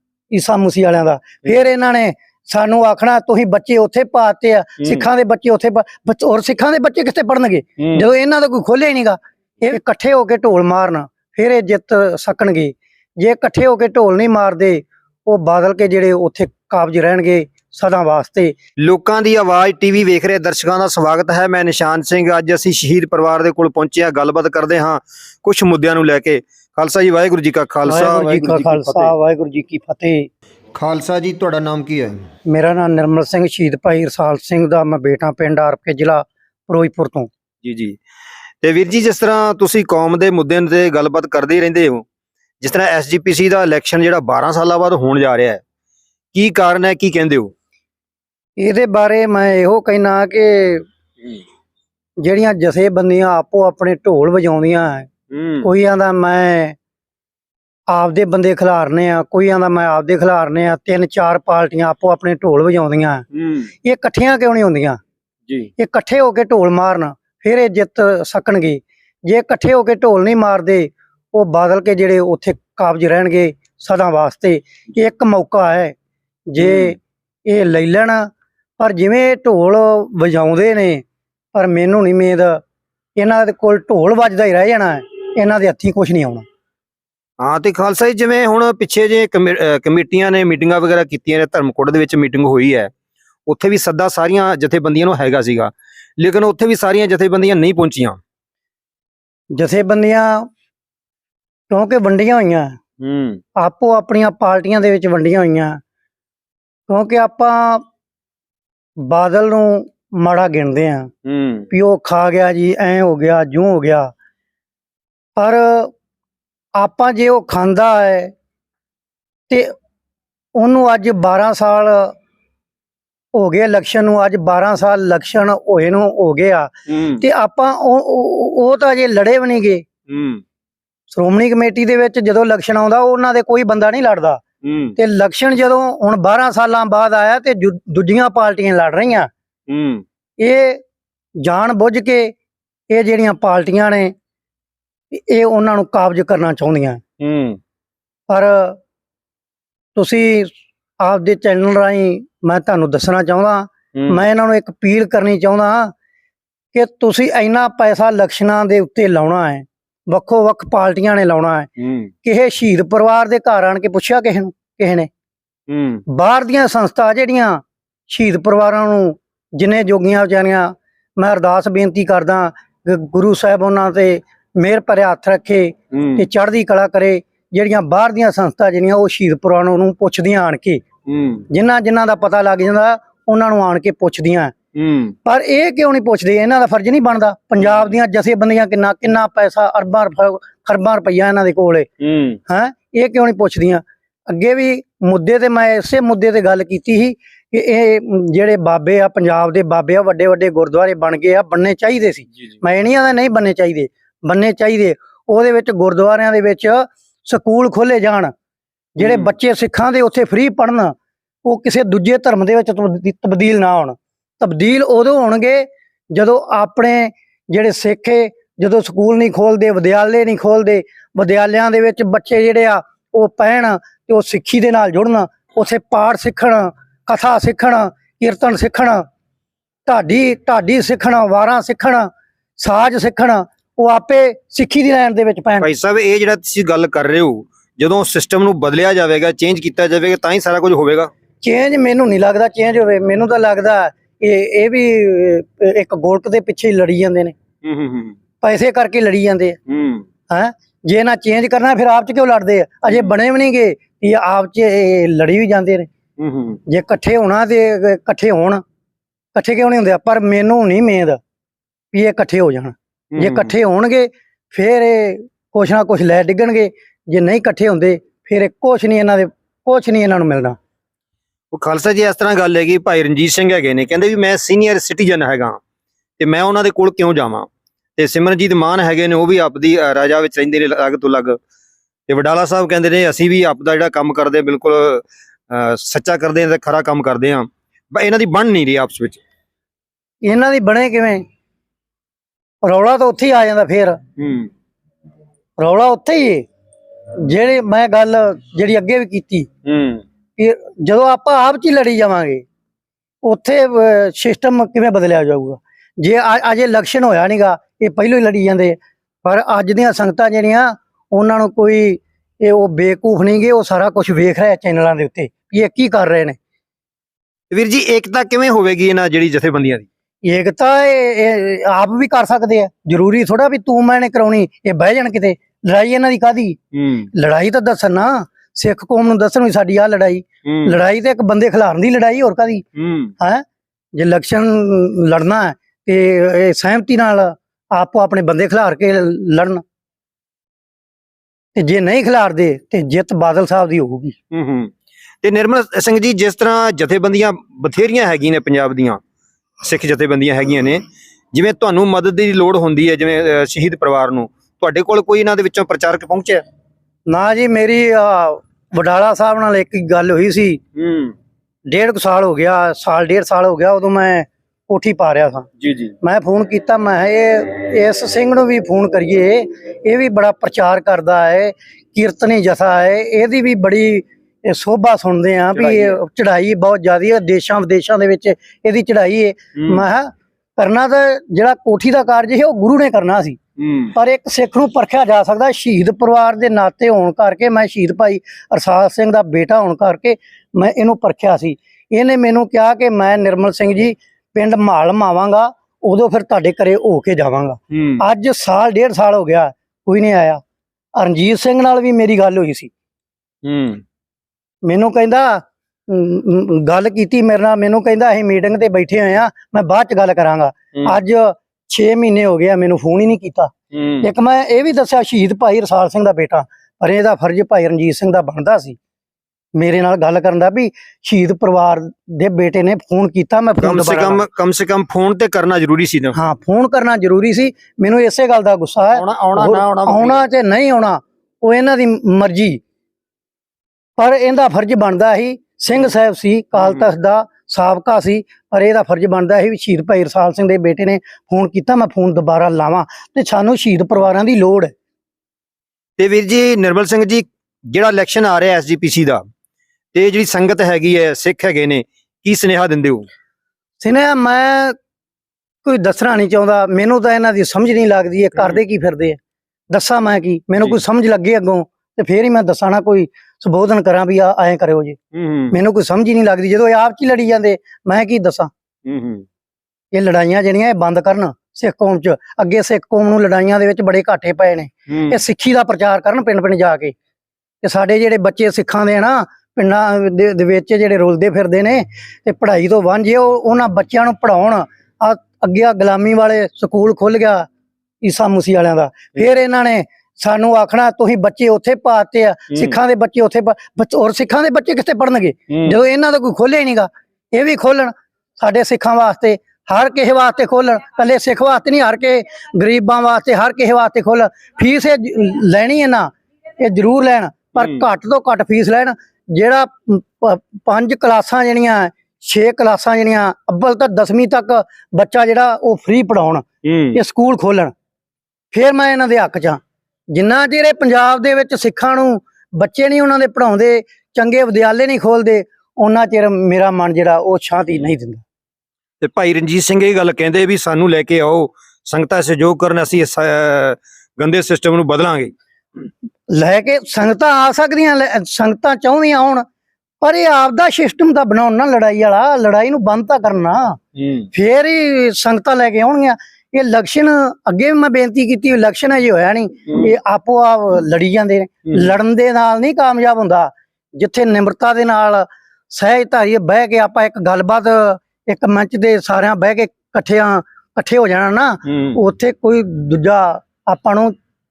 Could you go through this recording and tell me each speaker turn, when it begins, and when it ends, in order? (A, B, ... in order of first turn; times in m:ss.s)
0:00.3-0:18.6 A
0:04.8-0:05.0 B
0:07.8-0:08.0 B
0:18.8-0:29.1 B
0:27.8-0:30.3 A
0:30.7-0:32.2 B
0:32.5-0:37.3 A
0:37.6-0:38.0 B
0:38.6-0:42.0 B
0:42.6-0:45.6 B
0:46.3-0:47.5 B
0:48.6-0:50.8 A
0:52.2-0:55.1 A
0:55.3-0:55.7 B
0:55.6-0:56.7 A
0:57.9-1:03.2 A
1:03.3-1:03.7 B
1:03.8-1:05.0 A
1:05.8-1:15.9 A
1:16.5-1:18.3 A
1:16.6-1:16.9 B
1:18.8-1:21.0 A
1:21.5-1:22.6 A
1:23.2-1:26.4 A
1:27.4-1:32.9 B
1:33.5-1:38.2 B
1:39.5-1:40.4 A
1:41.7-1:42.8 A
1:43.0-1:43.4 B
1:43.6-1:45.8 A
1:46.9-1:47.8 A
1:49.0-1:51.1 A
1:51.2-1:51.7 B
1:51.7-1:54.1 A
1:55.4-1:55.9 A
1:56.8-1:58.3 A
2:00.5-2:02.1 A
2:03.3-2:09.8 A
2:06.9-2:07.2 B
2:10.1-2:10.4 B
2:11.1-2:14.4 A
2:14.6-2:15.0 B
2:15.0-2:19.3 A
2:19.7-2:20.0 B
2:20.4-2:20.8 A
2:21.4-2:22.3 A
2:22.9-2:24.1 A
2:25.1-2:27.0 A
2:27.2-2:27.6 B
2:28.3-2:28.8 A
2:29.9-2:35.9 A
2:33.9-2:34.2 B
2:36.7-2:41.7 A
2:41.8-2:42.1 B
2:42.2-2:45.1 A
2:45.7-2:46.0 B
2:46.1-3:00.8 A
2:55.9-2:56.3 B
3:01.1-3:01.4 B
3:01.5-3:04.5 A
3:04.7-3:05.1 B
3:05.2-3:11.9 A
3:07.6-3:08.0 B
3:12.0-3:12.4 B
3:12.5-3:28.3 A
3:29.0-3:30.9 A
3:29.0-3:29.3 B
3:31.4-3:49.0 A
3:49.8-3:55.7 A
3:55.6-4:01.1 B
4:01.4-4:07.3 A
4:07.6-4:08.2 B
4:08.4-4:09.6 A
4:09.7-4:10.0 B
4:10.3-4:15.9 A
4:12.9-4:13.2 B
4:16.2-4:16.6 B
4:16.7-4:18.6 A
4:19.3-4:21.2 A
4:21.9-4:30.6 A
4:23.1-4:23.5 B
4:31.5-4:35.6 B
4:36.2-4:41.4 B
4:42.1-4:49.2 B
4:50.2-4:51.2 A
4:52.6-4:54.0 A
4:54.2-4:54.5 B
4:55.6-4:56.5 A
4:57.2-4:59.5 A
4:59.6-5:00.0 B
5:00.4-5:02.4 A
5:03.2-5:16.4 A
5:17.5-5:19.8 B
5:20.2-5:26.6 A
5:26.7-5:27.1 B
5:27.1-5:32.6 A
5:30.4-5:30.8 B
5:32.8-5:33.1 B
5:33.9-5:39.6 A
5:41.6-5:44.2 A
5:44.3-5:49.0 B
5:49.6-5:56.4 B
5:57.1-6:00.6 A
6:00.8-6:01.1 B
6:01.7-6:05.5 A
6:05.6-6:05.9 B
6:06.0-6:23.4 A
6:15.5-6:16.0 B
6:19.6-6:19.8 B
6:23.6-6:23.9 B
6:23.9-6:40.4 A
6:37.7-6:38.0 B
6:41.0-6:42.7 A
6:43.4-6:43.8 B
6:44.6-6:58.8 A
6:53.7-6:54.1 B
6:59.6-7:04.2 A
7:03.6-7:06.2 B
7:06.1-7:12.6 A
7:08.9-7:10.2 B
7:14.0-7:24.7 A
7:16.6-7:16.9 B
7:26.0-7:29.2 B
7:29.9-7:33.0 B
7:33.8-7:34.8 A
7:35.6-7:39.2 A
7:39.7-7:45.0 A
7:45.1-7:45.6 B
7:45.5-7:48.5 A
7:48.8-7:49.2 B
7:49.9-7:56.9 A
7:54.9-7:55.2 B
7:57.6-8:07.5 A
8:08.0-8:37.7 A
8:12.5-8:12.8 B
8:15.5-8:15.8 B
8:27.5-8:27.8 B
8:36.6-8:37.0 B
8:38.5-8:39.6 A
8:40.1-8:48.2 A
8:49.0-8:55.3 B
8:56.3-8:59.4 A
9:00.0-9:03.8 A
9:04.0-9:04.3 B
9:04.3-9:24.1 A
9:11.7-9:11.9 B
9:21.6-9:22.0 B